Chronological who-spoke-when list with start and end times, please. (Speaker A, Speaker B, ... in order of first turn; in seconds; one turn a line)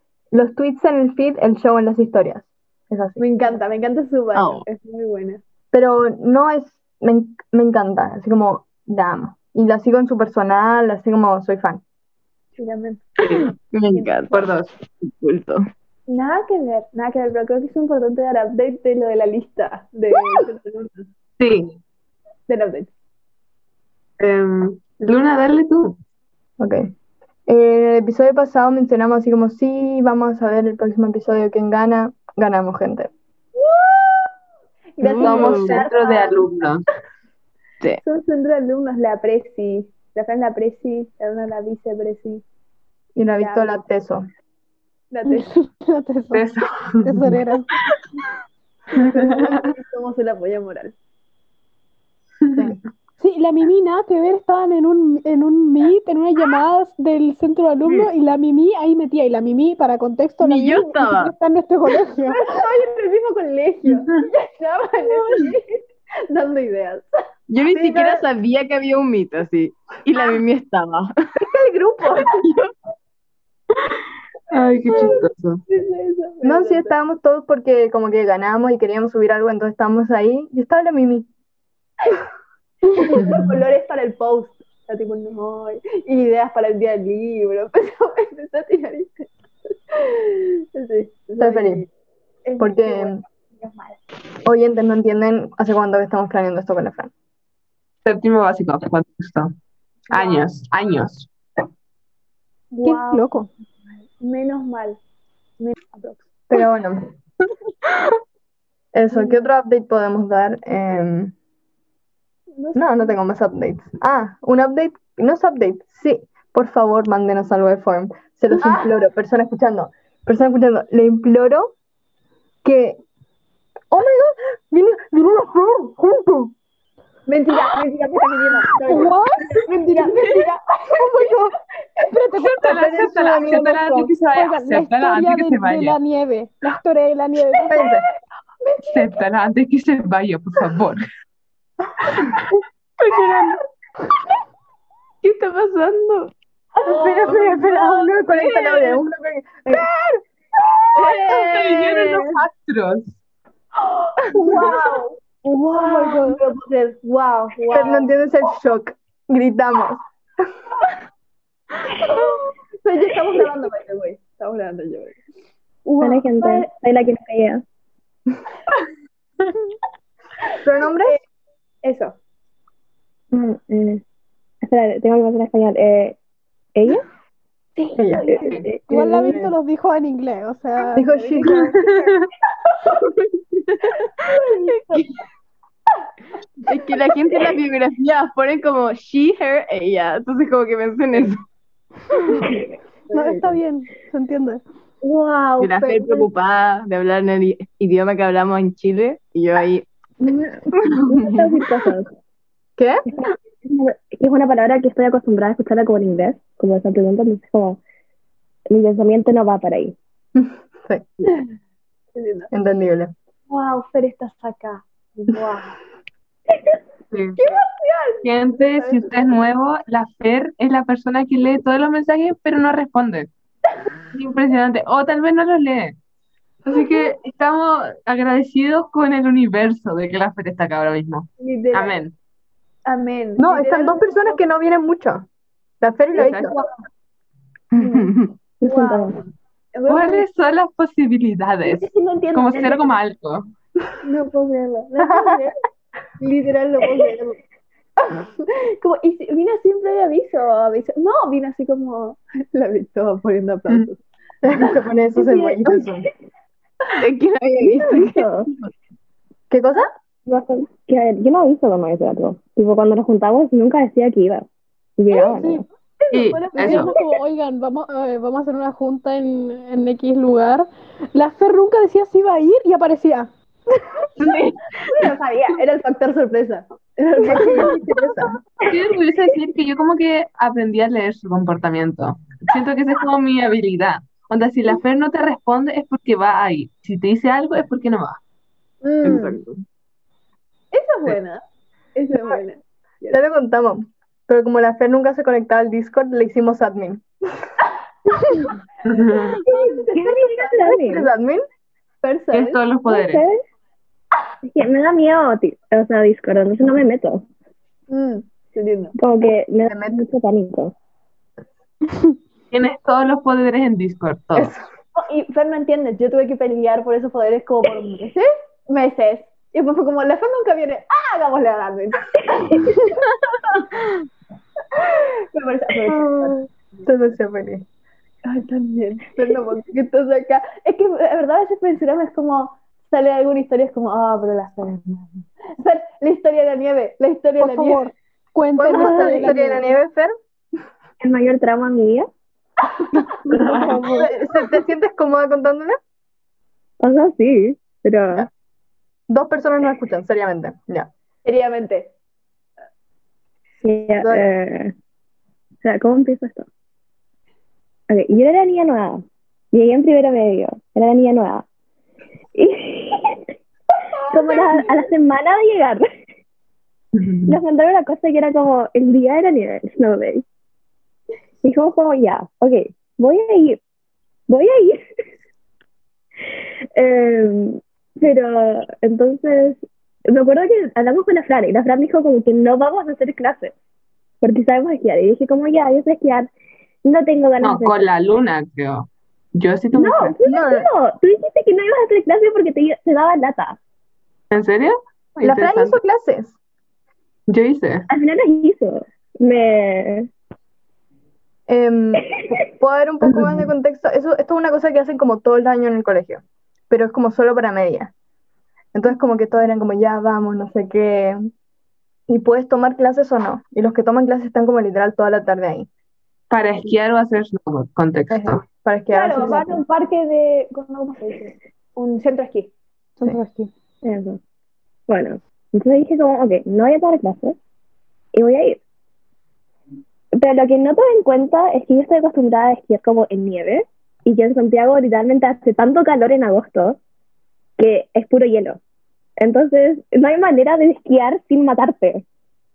Speaker A: 0.3-3.2
Speaker B: 3.2-5.4
Speaker C: 4.3-4.7
Speaker A: 5.7-11.8
Speaker B: 12.6-14.4
Speaker C: 13.3-14.3
Speaker D: 14.3-14.7
Speaker C: 15.0-15.6
Speaker B: 16.1-21.1
Speaker D: 21.4-21.8
Speaker B: 22.5-22.9
Speaker D: 24.2-26.0
Speaker A: 26.6-26.9
Speaker A: 27.5-33.1
Speaker B: 33.6-34.4
Speaker B: 35.0-36.7
Speaker C: 35.0-35.8
Speaker D: 35.2-36.8
Speaker B: 38.0-42.4
Speaker A: 43.2-44.2
Speaker B: 43.4-43.8
Speaker B: 45.1-45.5
Speaker E: 45.3-46.5
Speaker D: 46.3-47.4
Speaker E: 47.0-47.7
Speaker B: 48.9-50.9
Speaker D: 49.0-49.7
Speaker D: 52.4-52.7
Speaker A: 52.5-52.8
Speaker E: 53.2-62.5
Speaker C: 60.4-61.3
Speaker B: 62.3-67.1
Speaker C: 67.5-71.1
Speaker B: 71.4-72.4
Speaker C: 72.2-72.7
Speaker D: 74.5-75.6
Speaker B: 74.9-76.9
Speaker A: 76.4-81.3
Speaker B: 82.9-89.3
Speaker B: 89.9-91.9
Speaker A: 91.4-91.8
Speaker B: 92.5-94.0
Speaker A: 92.6-93.2
Speaker A: 94.5-97.1
Speaker D: 98.0-99.5
Speaker D: 100.1-101.3
Speaker B: 100.1-100.5
Speaker B: 102.7-103.3
Speaker E: 102.8-103.5
Speaker B: 104.2-105.0
Speaker B: 105.6-106.3
Speaker A: 106.5-107.1
Speaker A: 108.9-111.3
Speaker B: 109.1-109.4
Speaker B: 112.6-113.1
Speaker A: 112.8-121.7
Speaker B: 118.5-118.9
Speaker A: 122.6-123.0
Speaker A: 123.9-126.5
Speaker B: 127.3-131.4
Speaker A: 127.5-129.1
Speaker E: 128.8-131.5
Speaker B: 132.0-132.5
Speaker E: 132.1-137.9
Speaker D: 132.4-136.0
Speaker A: 132.7-134.1
Speaker B: 137.5-138.0
Speaker A: 137.7-138.0
Speaker B: 138.6-139.2
Speaker D: 138.9-141.0
Speaker C: 145.2-146.3
Speaker B: 146.8-147.5
Speaker A: 146.8-150.2
Speaker C: 148.3-149.0
Speaker B: 150.9-151.5
Speaker C: 150.9-152.4
Speaker D: 151.1-153.2
Speaker B: 154.2-158.1
Speaker E: 155.7-156.4
Speaker A: 157.7-160.0
Speaker B: 161.9-165.2
Speaker B: 165.9-166.7
Speaker F: 166.0-167.6
Speaker A: 170.6-171.2
Speaker B: 171.8-172.2
Speaker F: 173.3-174.0
Speaker F: 174.6-176.2
Speaker F: 176.8-177.1
Speaker B: 177.8-178.7
Speaker A: 178.0-178.3
Speaker F: 178.3-178.8
Speaker E: 178.9-181.1
Speaker A: 178.9-179.5
Speaker A: 181.0-181.8
Speaker B: 181.1-181.9
Speaker D: 181.5-182.3
Speaker B: 184.2-185.0
Speaker C: 184.7-185.1
Speaker B: 186.7-187.4
Speaker C: 186.7-191.4
Speaker B: 192.2-192.6
Speaker B: 193.1-193.6
Speaker E: 193.1-194.6
Speaker B: 195.0-196.3
Speaker C: 195.6-199.9
Speaker F: 200.2-202.1
Speaker A: 202.8-203.0
Speaker F: 203.1-207.8
Speaker F: 208.7-210.0
Speaker A: 210.4-211.1
Speaker B: 212.2-212.5
Speaker A: 212.5-213.1
Speaker B: 213.5-215.8
Speaker D: 217.1-217.6
Speaker B: 217.4-219.2
Speaker D: 218.2-223.3
Speaker D: 224.1-226.0
Speaker D: 226.7-232.1
Speaker B: 231.4-232.0
Speaker B: 232.9-234.4
Speaker A: 233.4-235.3
Speaker A: 235.8-236.5
Speaker D: 236.2-236.6
Speaker C: 237.8-238.3
Speaker B: 237.8-238.1
Speaker F: 238.6-239.2
Speaker B: 238.6-239.2
Speaker B: 239.8-240.3
Speaker D: 239.9-243.4
Speaker B: 241.7-242.9
Speaker B: 244.0-245.6
Speaker A: 245.0-245.4
Speaker B: 246.2-247.4
Speaker B: 248.1-254.0
Speaker A: 254.4-256.1
Speaker B: 254.6-255.6
Speaker C: 256.9-258.7
Speaker F: 257.8-258.5
Speaker A: 259.5-259.9
Speaker F: 260.3-264.5
Speaker F: 265.0-265.6
Speaker E: 265.1-265.6
Speaker B: 266.1-266.9
Speaker D: 266.1-266.9
Speaker E: 266.3-273.3
Speaker B: 274.9-277.8
Speaker A: 277.2-278.3
Speaker D: 278.7-288.2
Speaker B: 288.8-289.4
Speaker C: 289.0-289.6
Speaker B: 290.7-291.4
Speaker B: 291.9-293.2
Speaker A: 293.1-297.1
Speaker B: 298.2-298.5
Speaker D: 298.9-299.4
Speaker B: 299.4-300.6
Speaker A: 299.5-301.4
Speaker F: 299.9-301.1
Speaker B: 302.0-302.6
Speaker D: 302.3-303.2
Speaker F: 302.9-303.4
Speaker F: 304.4-307.3
Speaker B: 307.9-308.9
Speaker F: 309.0-310.7
Speaker A: 309.7-310.1
Speaker D: 312.5-314.5
Speaker A: 314.4-314.6
Speaker B: 315.0-323.0
Speaker B: 324.7-326.4
Speaker A: 325.9-327.6
Speaker B: 328.3-335.0
Speaker B: 335.6-337.9
Speaker E: 337.4-339.4
Speaker A: 338.6-340.1
Speaker F: 338.8-339.1
Speaker B: 339.0-339.6
Speaker F: 341.0-342.1
Speaker E: 343.3-344.1
Speaker A: 343.7-345.8
Speaker F: 346.8-348.3
Speaker A: 349.1-350.9
Speaker B: 351.2-351.9
Speaker F: 353.6-354.7
Speaker A: 354.0-354.3
Speaker F: 355.6-356.5
Speaker F: 357.9-359.0
Speaker F: 359.5-361.4
Speaker F: 362.4-363.2
Speaker B: 364.0-364.8
Speaker F: 364.1-365.9
Speaker F: 367.3-370.2
Speaker F: 371.4-373.6
Speaker F: 374.3-374.9
Speaker F: 376.8-383.5
Speaker F: 384.2-386.3
Speaker F: 386.9-387.8
Speaker D: 387.4-390.2
Speaker F: 389.8-393.6
Speaker A: 390.2-390.7
Speaker D: 394.3-395.7
Speaker A: 395.2-396.4
Speaker D: 397.3-397.9
Speaker F: 397.9-400.1
Speaker A: 401.5-407.9
Speaker A: 408.7-411.2
Speaker A: 412.1-415.7
Speaker D: 416.3-418.4
Speaker A: 418.1-419.6
Speaker B: 418.9-422.5
Speaker E: 423.0-423.5
Speaker F: 423.8-424.2
Speaker F: 424.9-427.4
Speaker F: 428.1-428.6
Speaker F: 430.2-436.8
Speaker F: 437.6-438.6
Speaker F: 439.2-442.0